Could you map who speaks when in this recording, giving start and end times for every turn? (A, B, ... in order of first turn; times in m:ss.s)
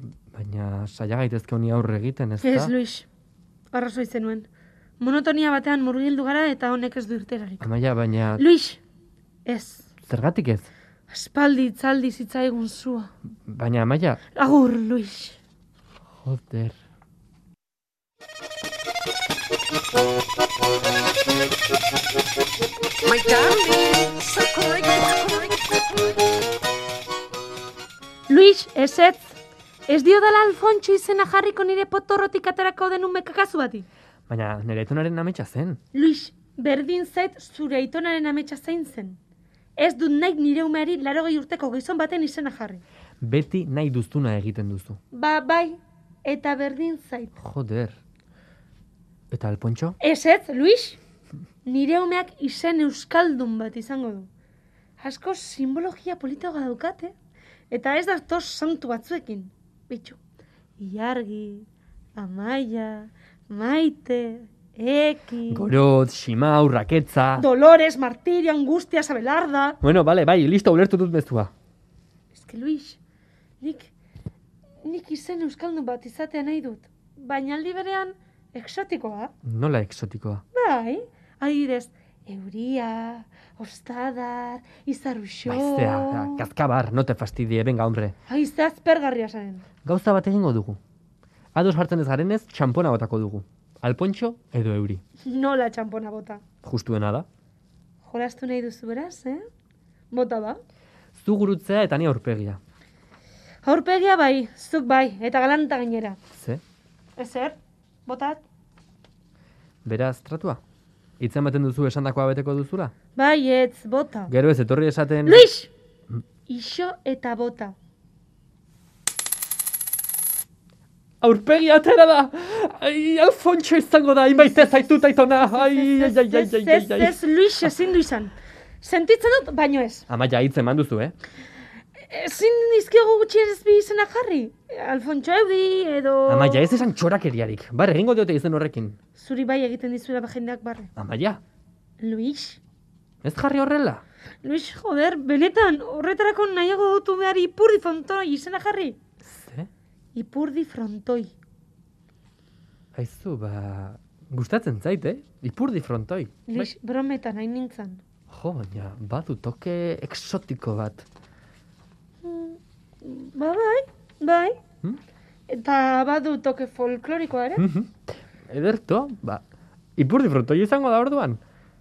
0:00.3-0:02.7 A
0:02.4-0:03.1 B
0:03.7-0:04.5 B
0:05.0-0:07.7 B
0:07.6-0:08.4 A
0:08.4-0:08.8 B
0:09.4-0:09.9 B
0:10.0-0:10.7 A
0:11.1-0:13.1 B
0:13.5-0:14.2 A
0:14.3-0:15.4 B
0:16.2-0:16.8 A
0:23.1-0:25.5 C
0:28.3-0:33.9 B
0:34.3-0:35.8 A
0:35.9-0:39.2 B
0:39.8-0:42.8 B
0:43.2-0:45.0 A
0:45.1-0:47.3 B
0:47.4-0:48.0 A
0:49.3-0:50.0 A
0:50.0-0:51.0 B
0:51.6-0:54.3 B
0:55.0-0:57.1 B
0:57.7-1:00.2 B
1:00.8-1:05.7 B
1:05.5-1:07.4 A
1:07.4-1:09.8 B
1:09.8-1:11.5 A
1:12.3-1:13.0 B
1:13.6-1:13.9 B
1:14.8-1:19.3 B
1:19.4-1:20.4 A
1:20.5-1:26.5 B
1:25.4-1:28.1 A
1:28.3-1:29.6 B
1:29.8-1:30.8 A
1:31.5-1:35.0 A
1:35.2-1:36.4 B
1:36.6-1:37.2 A
1:38.0-1:39.4 B
1:40.1-1:40.6 B
1:41.1-1:42.6 A
1:43.6-1:46.2 B
1:46.3-1:46.6 A
1:47.2-1:48.4 B
1:49.8-1:50.6 A
1:51.2-1:52.9 A
1:53.1-1:54.3 B
1:54.3-1:55.5 A
1:55.2-1:55.7 B
1:56.5-1:57.8 B
2:01.2-2:07.2 A
2:05.5-2:10.0 B
2:10.1-2:11.1 A
2:12.0-2:16.8 B
2:16.3-2:19.0 A
2:19.1-2:20.9 B
2:21.0-2:21.4 A
2:22.0-2:22.6 B
2:23.2-2:24.0 A
2:24.4-2:29.0 B
2:29.2-2:29.7 A
2:30.1-2:31.3 B
2:32.9-2:36.7 A
2:36.5-2:38.0 B
2:38.3-2:41.0 A
2:42.2-2:44.6 B
2:45.5-2:47.7 B
2:47.6-2:47.9 A
2:48.5-2:49.4 A
2:50.0-2:51.4 A